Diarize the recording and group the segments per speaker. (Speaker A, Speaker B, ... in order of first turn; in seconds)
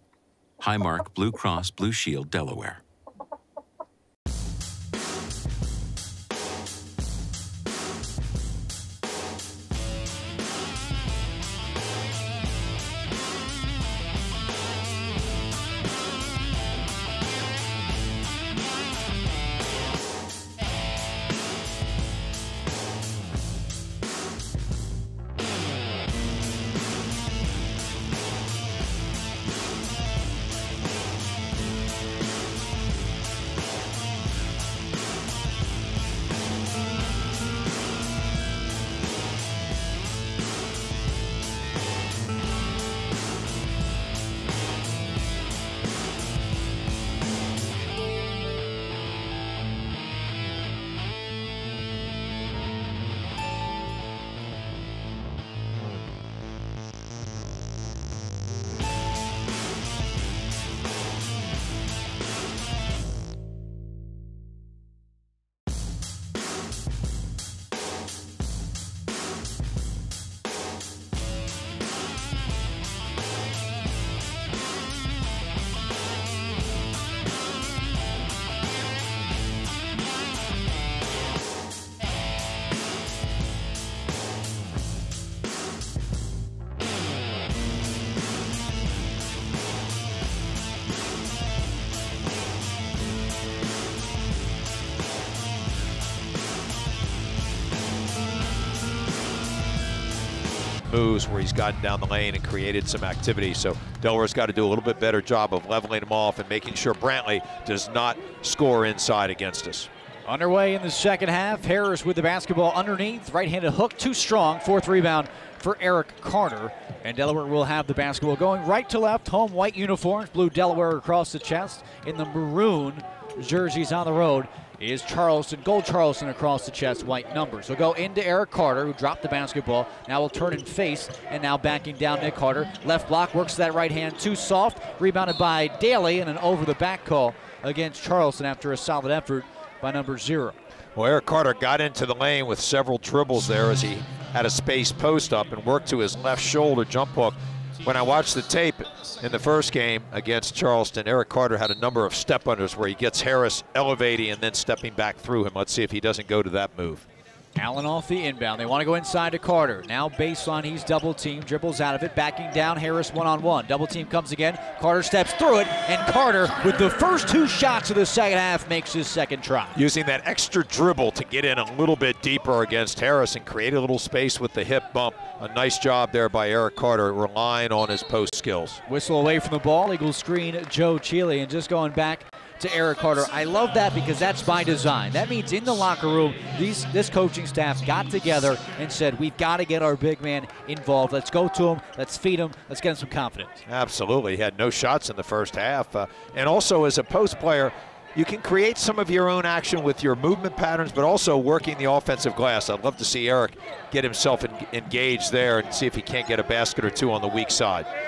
Speaker A: 0.6-2.8
Speaker B: 100.8-109.9, 140.9-157.1, 169.8-178.8, 193.7-207.9
Speaker C: 110.3-140.6, 157.6-169.8, 178.9-193.6